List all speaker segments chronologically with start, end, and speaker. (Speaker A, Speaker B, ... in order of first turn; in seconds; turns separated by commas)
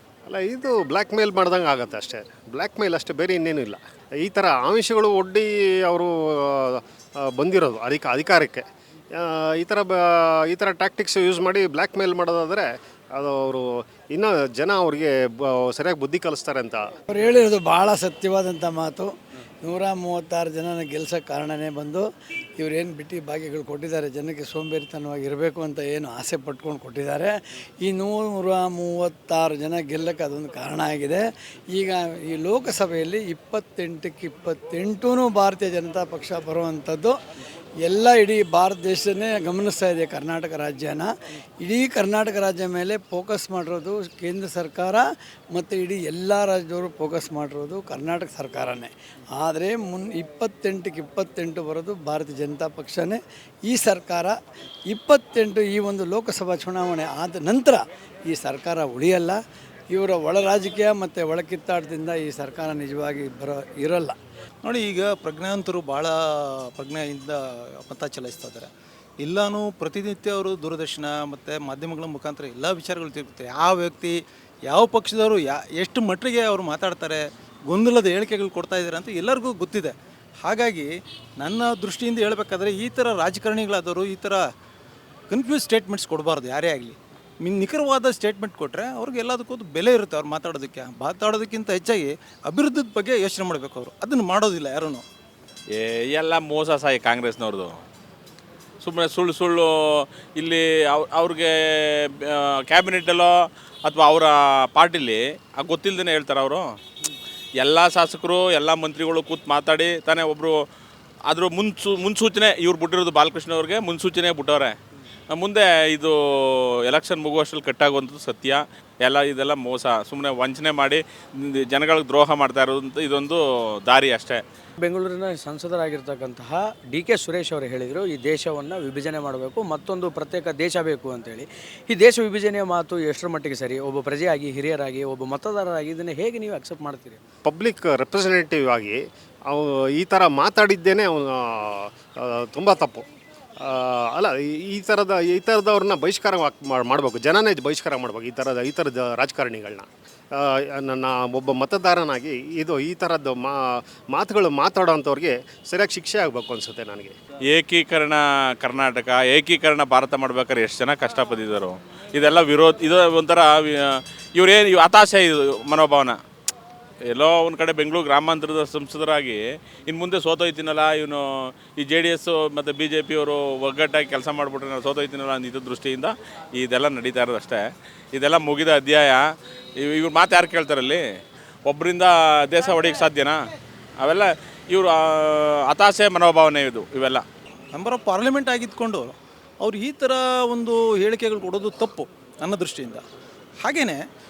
Speaker A: 0.3-16.9, Speaker B: 17.1-19.1, Speaker B: 19.6-22.1, Speaker B: 22.6-37.1, Speaker B: 37.8-54.4, Speaker B: 54.9-59.4, Speaker B: 59.9-64.2, Speaker C: 64.6-68.7, Speaker C: 69.2-84.5, Speaker C: 85.3-95.0, Speaker D: 95.7-97.8, Speaker D: 98.8-106.7, Speaker D: 107.6-110.6, Speaker D: 111.3-114.8, Speaker D: 115.3-124.4, Speaker E: 124.8-137.2, Speaker A: 137.4-143.1, Speaker A: 143.6-157.2, Speaker D: 157.5-166.2, Speaker D: 167.1-179.2, Speaker D: 179.8-181.0, Speaker D: 181.7-183.4, Speaker D: 184.0-187.2, Speaker C: 187.7-193.1, Speaker C: 193.6-194.0